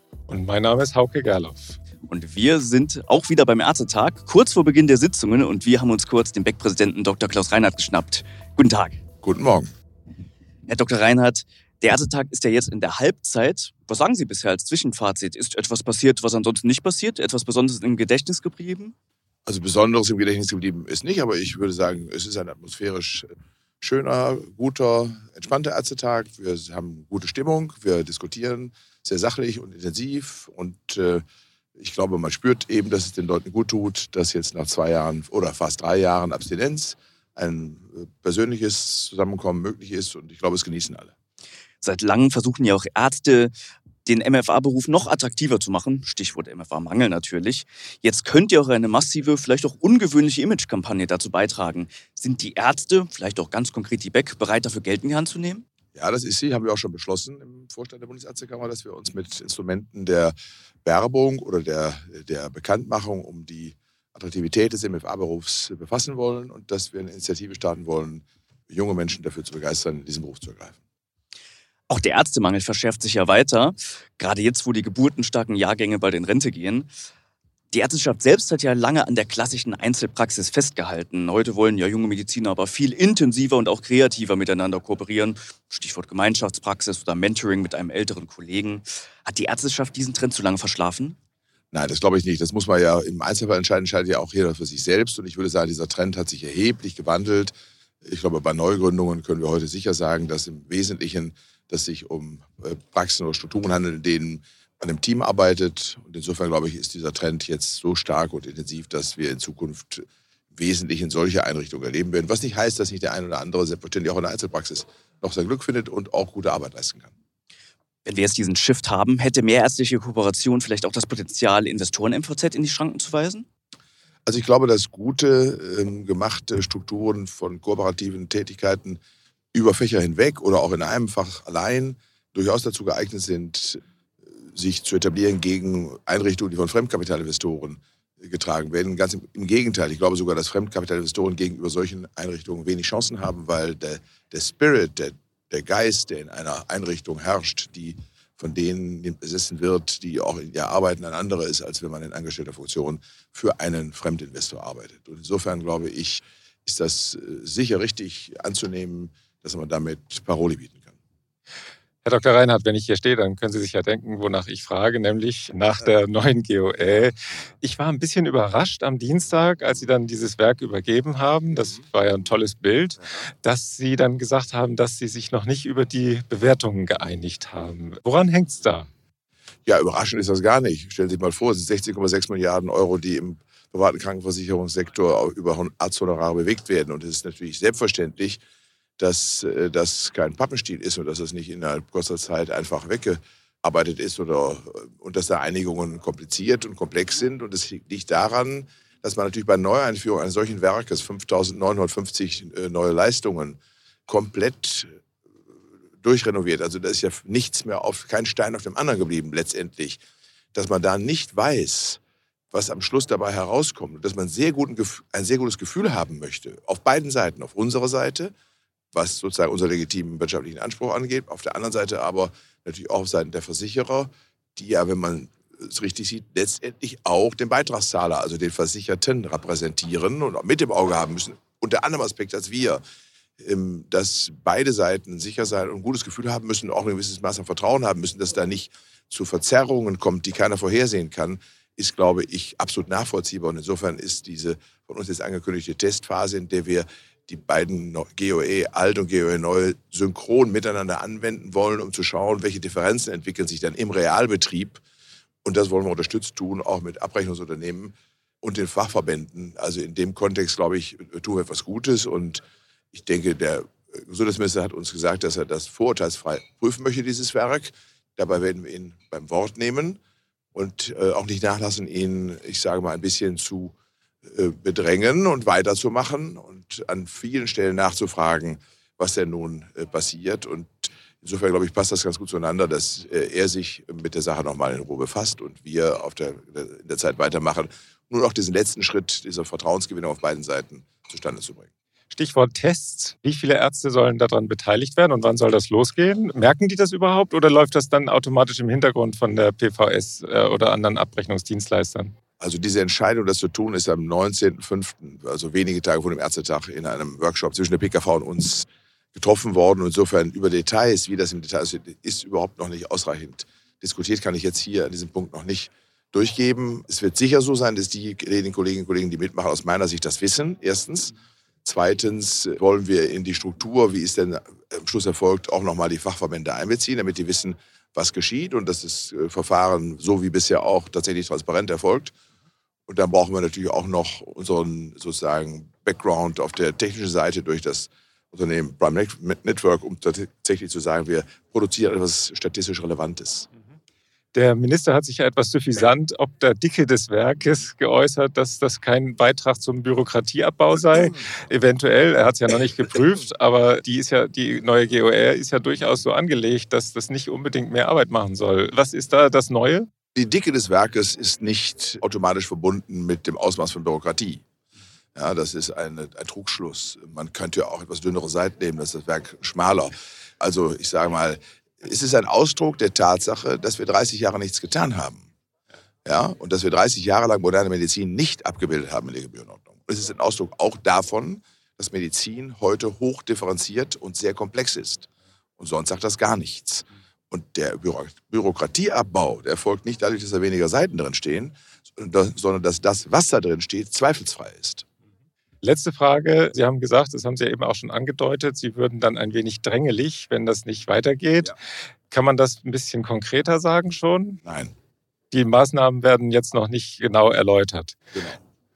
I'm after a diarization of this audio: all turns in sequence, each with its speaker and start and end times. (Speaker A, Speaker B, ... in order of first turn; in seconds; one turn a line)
Speaker A: 0.3-1.8
Speaker B: 2.1-9.0
Speaker C: 9.2-9.7
Speaker B: 10.7-18.9
Speaker C: 19.5-23.3
Speaker C: 23.8-31.2
Speaker C: 31.8-41.1
Speaker B: 41.8-43.5
Speaker B: 44.0-55.6
Speaker C: 56.0-70.8
Speaker B: 71.9-76.9
Speaker B: 77.7-91.2
Speaker C: 91.7-117.1
Speaker B: 118.1-123.5
Speaker C: 124.3-129.0
Speaker C: 129.5-133.8
Speaker C: 134.4-161.0
Speaker A: 162.0-178.9
Speaker C: 179.7-188.4
Speaker C: 189.0-204.9
Speaker C: 206.0-210.0
Speaker C: 210.5-212.0
Speaker C: 212.5-218.3
Speaker C: 218.9-232.8
Speaker C: 233.4-254.8
Speaker C: 255.4-262.4
Speaker C: 262.9-270.0
Speaker C: 270.5-273.7
Speaker C: 274.2-291.7
Speaker A: 292.1-302.1
Speaker C: 302.4-321.1
Speaker C: 321.6-332.1
Speaker C: 332.9-343.5
Speaker A: 344.3-359.9
Speaker C: 360.1-364.4
Speaker C: 365.1-375.3
Speaker C: 376.1-394.9
Speaker A: 395.6-401.6
Speaker A: 402.1-404.4
Speaker C: 404.4-404.7
Speaker A: 405.3-408.0
Speaker C: 408.1-408.4